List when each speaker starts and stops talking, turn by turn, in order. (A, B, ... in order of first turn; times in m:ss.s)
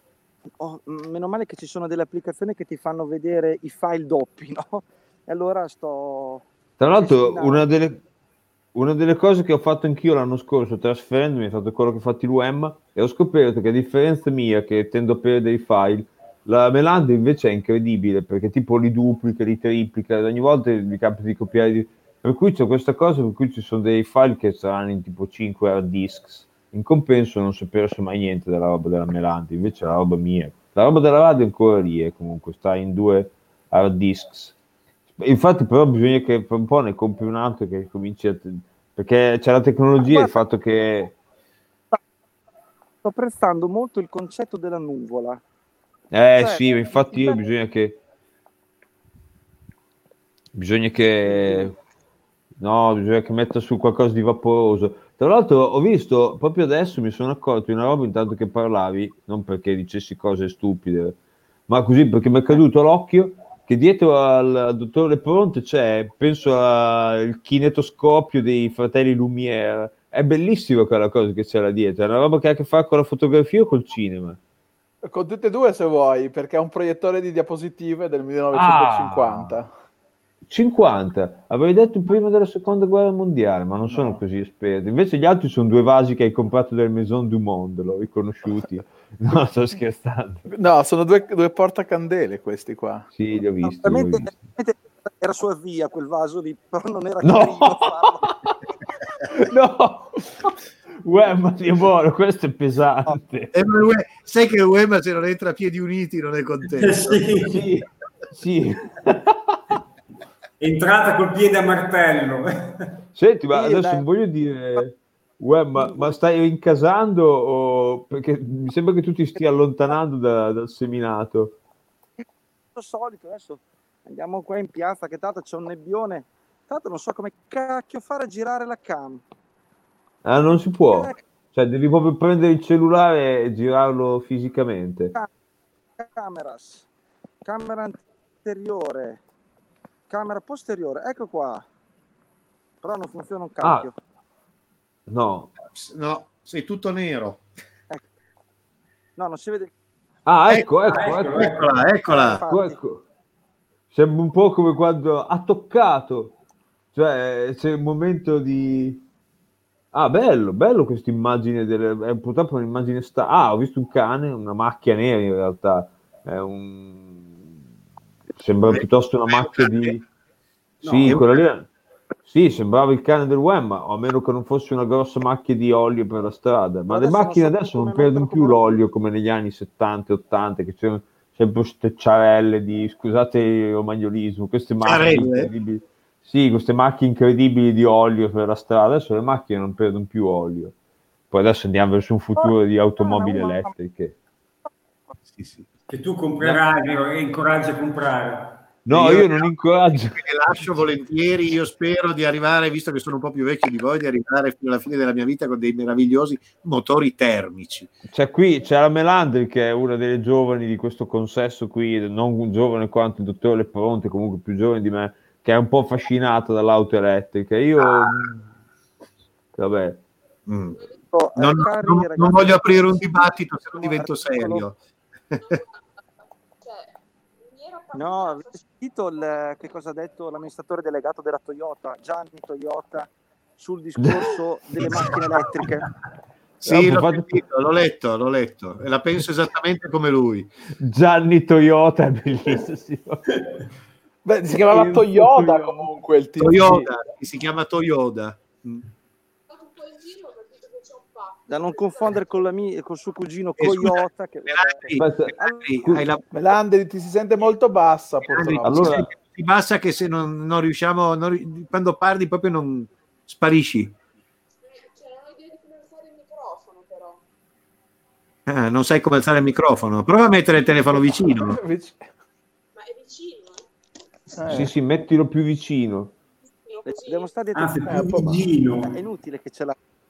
0:00.6-0:07.7 A
0:06.8-0:08.0 B
0:08.7-0:34.6 B
0:35.2-0:41.2 B
0:40.0-0:40.4 A
0:43.0-0:45.4 A
0:46.1-0:48.0 B
0:46.3-0:47.4 A
0:50.5-0:51.7 B
0:52.6-1:01.2 B
1:01.7-1:14.4 B
1:15.0-1:19.7 C
1:18.5-1:19.5 B
1:20.5-1:30.4 B
1:23.9-1:24.2 C
1:30.5-1:33.1 C
1:33.1-1:34.3 B
1:33.6-1:38.3 A
1:37.2-1:38.3 B
1:39.3-1:43.5 B
1:43.5-1:47.3 D
1:46.7-1:47.6 E
1:47.4-1:49.6 B
1:50.6-1:52.8 E
1:53.1-2:01.6 B
1:53.5-1:54.0 A
1:55.8-1:56.1 A
2:02.2-2:09.2 A
2:10.2-2:15.1 B
2:10.9-2:11.2 A
2:16.0-2:16.8 A
2:17.4-2:19.2 A
2:20.1-2:21.6 A
2:22.8-2:24.0 A
2:25.1-2:25.5 B
2:25.6-2:27.4 D
2:29.2-2:29.7 A
2:30.2-2:31.6 B
2:30.8-2:31.7 E
2:31.3-2:32.4 D
2:32.1-2:32.8 A
2:32.4-2:33.0 B
2:33.9-2:36.3 B
2:36.9-2:39.0 B
2:39.9-2:47.4 B
2:48.4-2:50.0 B
2:48.7-2:49.9 D
2:50.8-2:51.7 B
2:51.0-2:51.4 D
2:52.2-3:10.7 B
2:56.9-2:58.7 A
3:04.8-3:05.5 D
3:11.3-3:14.1 B
3:12.4-3:13.7 A
3:15.3-3:15.6 D
3:15.9-3:18.6 E
3:18.8-3:20.3 B
3:18.9-3:19.5 D
3:20.1-3:27.9 D
3:28.1-3:38.5 B
3:39.5-3:40.0 B
3:40.5-3:40.8 D
3:41.1-3:42.7 A
3:41.4-3:44.8 D
3:43.7-3:44.6 A
3:46.6-3:48.6 F
3:47.9-3:55.9 A
3:54.0-3:54.3 B
3:56.6-4:00.5 D
3:56.7-3:57.4 B
4:00.8-4:03.2 B
4:04.2-4:06.8 C
4:04.6-4:05.9 B
4:06.4-4:08.8 D
4:06.4-4:06.9 B
4:09.5-4:12.4 F
4:11.5-4:15.7 A
4:13.6-4:16.2 D
4:14.9-4:16.1 B
4:16.3-4:19.0 C
4:18.2-4:24.0 D
4:18.6-4:19.1 B
4:24.7-4:27.2 F
4:28.5-4:31.6 D
4:30.9-4:32.1 C
4:32.7-4:33.7 F
4:34.3-4:34.7 C
4:34.5-4:36.1 B
4:36.5-4:37.3 F
4:36.8-4:38.2 A
4:37.5-4:39.0 E
4:37.9-4:38.2 C
4:38.7-4:39.8 A